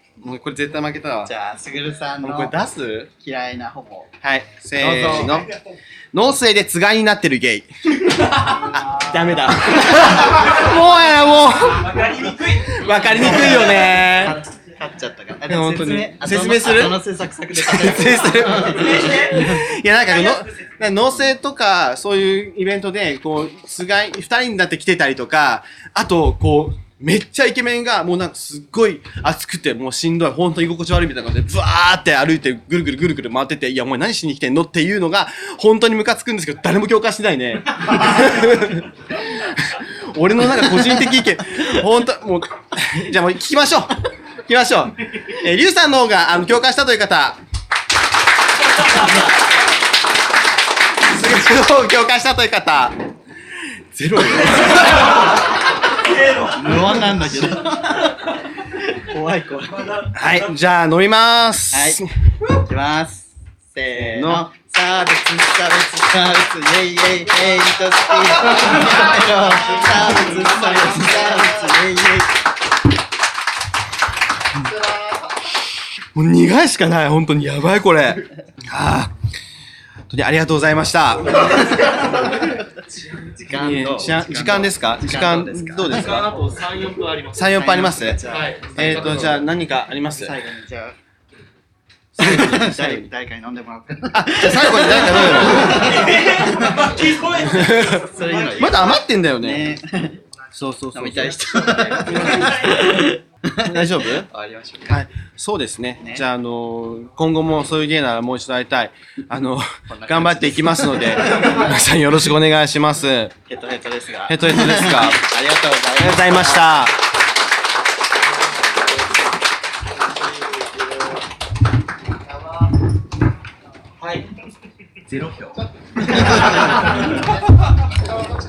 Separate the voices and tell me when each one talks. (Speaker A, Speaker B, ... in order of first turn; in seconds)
Speaker A: 0.2-1.3, 2.2-3.1, 4.2-5.5, 6.1-14.4, 15.5-17.0, 17.6-38.9, 39.4-47.4, 51.1-53.0, 53.9-55.2, 60.1-62.1, 64.0-64.5, 76.2-79.1, 80.1-81.5, 83.5-86.5, 87.3-88.2, 88.8-90.4, 92.2-93.1, 94.1-96.1, 97.2-98.0, 98.6-99.8, 100.5-103.1, 103.7-104.3, 104.9-113.3, 114.3-115.2, 116.0-117.0
Speaker B: 1.2-2.6, 3.2-4.1, 4.8-5.5, 13.2-13.5, 14.1-19.6, 56.5-60.1, 61.7-62.0, 62.5-72.3, 83.1-86.5, 87.4-89.3, 90.2-91.0, 92.2-97.0, 98.0-100.2, 100.9-105.0, 106.0-106.3, 109.9-111.6, 113.5-116.8
Speaker C: 11.9-12.9, 18.8-19.4, 85.9-87.5, 88.3-89.5, 95.9-98.9, 102.0-102.4, 120.2-121.0, 124.0-124.3, 125.1-126.6